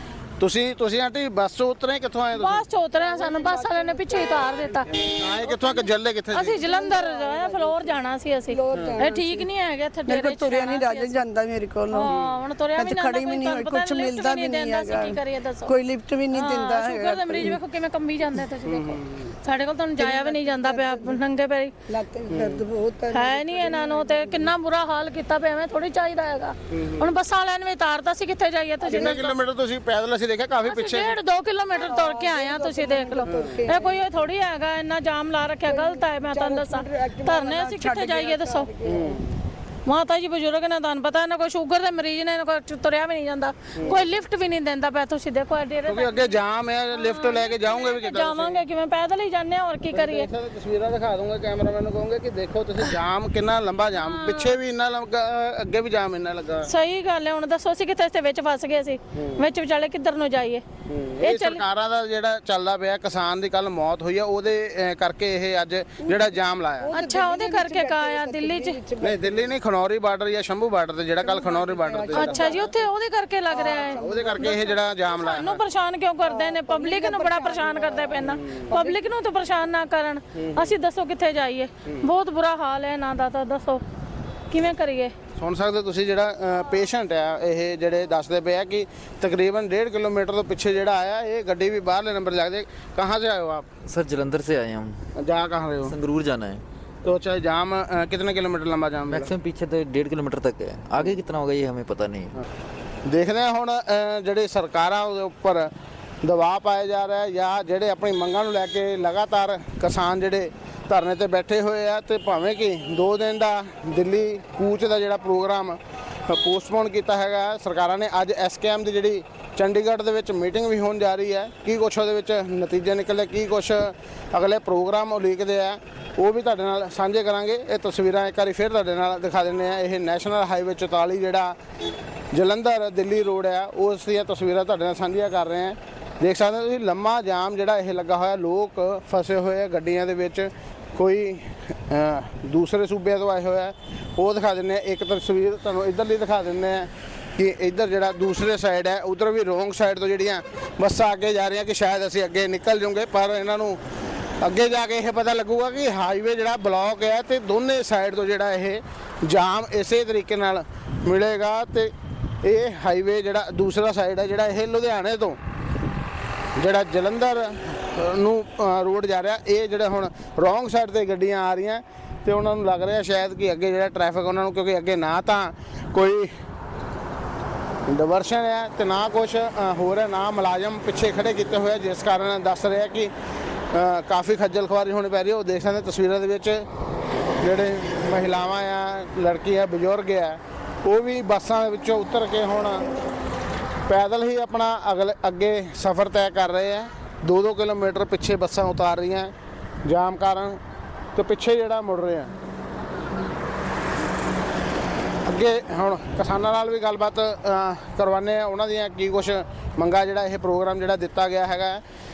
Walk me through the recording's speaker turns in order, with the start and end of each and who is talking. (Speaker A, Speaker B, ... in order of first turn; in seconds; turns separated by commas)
Speaker A: 0.4-2.5, Speaker B: 2.3-11.2, Speaker C: 3.0-4.8, Speaker A: 5.0-6.5, Speaker C: 6.6-9.5, Speaker C: 10.1-12.2, Speaker B: 11.9-15.8, Speaker C: 12.7-17.6, Speaker B: 16.3-21.7, Speaker C: 18.7-19.0, Speaker C: 20.0-21.2, Speaker C: 21.9-24.5, Speaker A: 22.3-22.6, Speaker B: 23.1-29.4, Speaker A: 26.7-27.1, Speaker C: 28.8-29.3, Speaker A: 29.1-31.0, Speaker B: 30.6-38.7, Speaker C: 31.8-34.0, Speaker C: 35.7-39.2, Speaker A: 38.9-39.1, Speaker B: 39.9-50.3, Speaker A: 43.8-44.0, Speaker A: 45.9-48.6, Speaker A: 49.9-56.7, Speaker B: 53.9-54.6, Speaker B: 56.6-60.6, Speaker A: 60.9-66.9, Speaker B: 61.2-61.6, Speaker C: 66.0-69.6, Speaker B: 66.9-68.8, Speaker A: 69.0-72.5, Speaker C: 71.2-72.8, Speaker B: 72.1-83.8, Speaker C: 73.5-74.7, Speaker A: 73.5-75.6, Speaker C: 76.2-79.0, Speaker B: 84.5-85.1, Speaker A: 85.4-93.7, Speaker D: 93.8-95.0, Speaker A: 95.2-95.9, Speaker D: 95.8-96.6, Speaker A: 97.0-99.3, Speaker D: 99.1-102.3, Speaker A: 103.0-131.6, Speaker A: 132.3-153.8, Speaker A: 154.4-165.4, Speaker A: 166.6-176.3, Speaker A: 177.9-183.1, Speaker A: 183.7-186.7, Speaker A: 187.4-192.9, Speaker A: 193.9-200.6, Speaker A: 201.1-202.3, Speaker A: 205.2-211.8